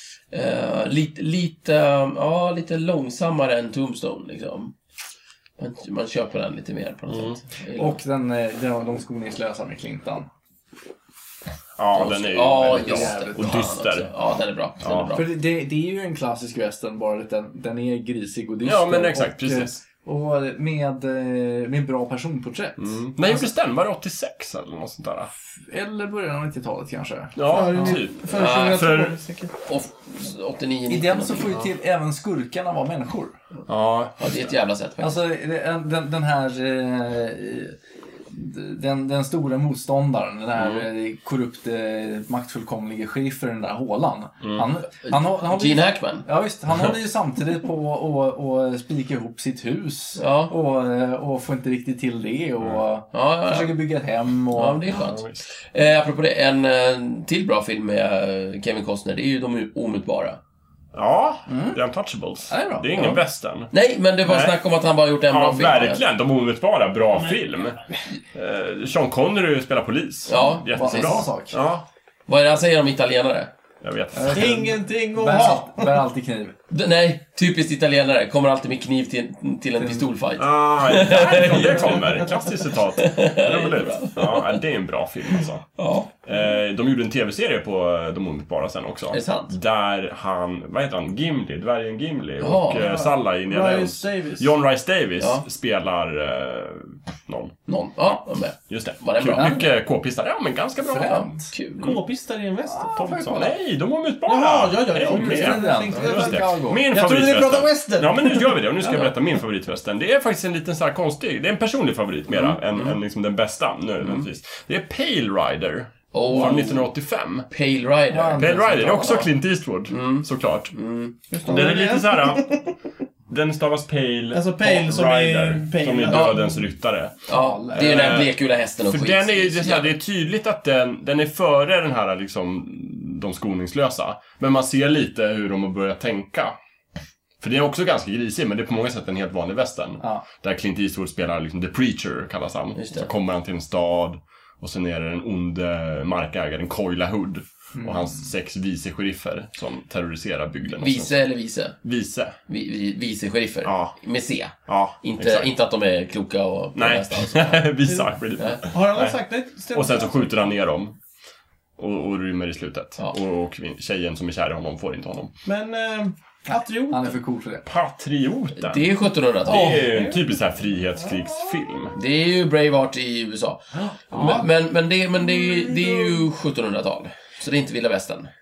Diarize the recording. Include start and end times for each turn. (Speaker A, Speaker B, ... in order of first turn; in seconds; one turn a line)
Speaker A: 0.3-4.7
Speaker A: 5.6-8.0
Speaker B: 7.1-7.4
Speaker C: 7.8-10.3
Speaker B: 11.8-14.1
Speaker A: 11.9-15.2
Speaker C: 12.4-13.7
Speaker B: 14.8-15.2
Speaker C: 15.1-23.5
Speaker B: 18.6-19.8
Speaker B: 22.8-25.3
Speaker C: 25.7-28.0
Speaker B: 27.4-29.2
Speaker D: 27.5-29.5
Speaker A: 28.3-29.0
Speaker A: 29.6-31.7
Speaker C: 30.9-33.4
Speaker B: 33.7-34.5
Speaker A: 34.2-35.1
Speaker C: 35.0-37.8
Speaker C: 38.3-55.0
Speaker B: 40.6-40.9
Speaker B: 44.4-44.7
Speaker A: 45.0-46.3
Speaker A: 50.2-50.5
Speaker A: 53.1-53.8
Speaker A: 54.5-60.4
Speaker B: 54.9-55.5
Speaker B: 60.9-63.7
Speaker C: 61.5-61.8
Speaker C: 62.5-63.2
Speaker A: 63.7-66.0
Speaker B: 64.2-64.6
Speaker B: 65.3-67.8
Speaker B: 68.3-71.8
Speaker A: 70.3-71.3
Speaker C: 70.3-71.6
Speaker A: 72.3-73.5
Speaker B: 73.8-74.6
Speaker C: 74.1-76.5
Speaker D: 74.3-76.0
Speaker A: 76.7-82.3
Speaker C: 79.8-80.1
Speaker B: 80.4-85.7
Speaker A: 83.0-84.6
Speaker A: 85.8-86.1
Speaker B: 86.2-101.3
Speaker A: 89.1-89.5
Speaker A: 92.4-93.1
Speaker D: 92.8-94.5
Speaker A: 95.2-95.4
Speaker A: 97.7-99.6
Speaker C: 99.3-99.7
Speaker C: 100.8-101.5
Speaker A: 101.1-101.9
Speaker D: 101.8-103.0
Speaker C: 102.7-103.6
Speaker B: 103.0-117.5
Speaker D: 104.3-108.6
Speaker C: 105.0-106.8
Speaker A: 112.5-113.0
Speaker A: 116.1-116.9
Speaker A: 117.5-119.2
Speaker C: 118.1-119.3
Speaker B: 118.4-120.7
Speaker A: 119.9-121.2
Speaker D: 121.3-122.8
Speaker B: 121.5-122.5
Speaker B: 123.3-136.6
Speaker D: 124.3-126.6
Speaker A: 126.1-126.4
Speaker A: 127.3-129.9
Speaker C: 127.3-128.1
Speaker B: 137.4-151.2
Speaker A: 142.8-143.1
Speaker C: 147.8-148.3
Speaker A: 150.7-151.8
Speaker B: 151.8-152.4
Speaker A: 152.5-157.8
Speaker B: 153.7-154.0
Speaker B: 154.5-155.5
Speaker B: 156.8-159.2
Speaker D: 158.6-160.4
Speaker B: 159.7-161.0
Speaker B: 161.8-165.3
Speaker D: 165.4-167.2
Speaker C: 166.5-167.7
Speaker B: 167.7-172.0
Speaker A: 168.6-169.9
Speaker D: 169.5-170.2
Speaker D: 171.1-171.6
Speaker A: 171.9-178.3
Speaker D: 174.1-174.4
Speaker C: 174.1-174.4
Speaker D: 175.2-176.2